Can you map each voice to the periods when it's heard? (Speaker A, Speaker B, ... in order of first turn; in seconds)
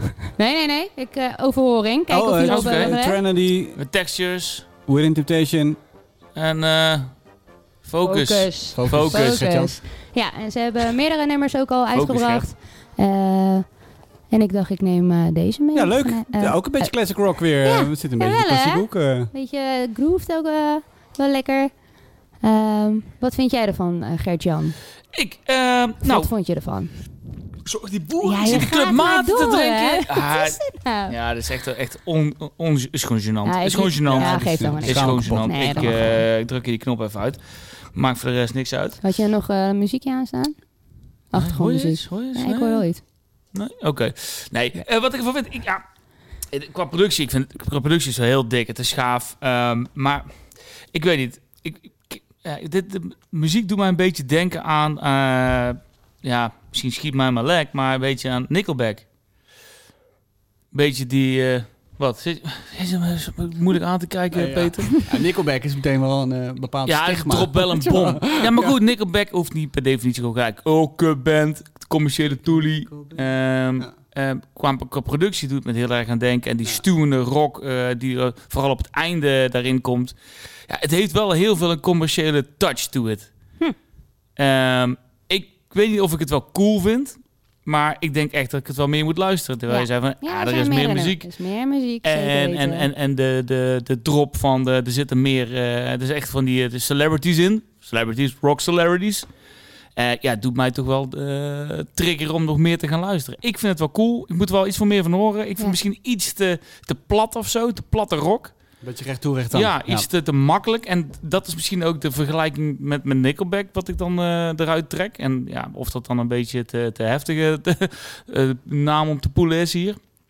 Speaker A: 0.3-3.2, 8.0-13.7, 14.3-16.9, 17.6-21.7, 22.4-24.8, 26.0-26.9, 28.2-31.1, 33.4-36.1, 39.0-40.6, 41.3-43.0, 89.7-92.9
Speaker B: 2.1-3.8, 4.9-5.8, 8.7-9.8, 15.7-19.3, 34.1-36.2, 64.3-68.8, 72.4-73.9, 108.8-110.1
Speaker C: 2.4-3.0, 3.8-4.7, 6.3-7.2, 7.8-9.4, 11.9-12.5, 25.1-26.3, 27.7-37.4, 37.9-39.0, 41.3-42.9, 43.5-45.8, 46.5-50.3, 50.9-59.1, 60.7-65.0, 66.9-80.2, 80.7-83.3, 84.4-91.3, 92.0-99.3, 100.0-108.5, 109.5-120.0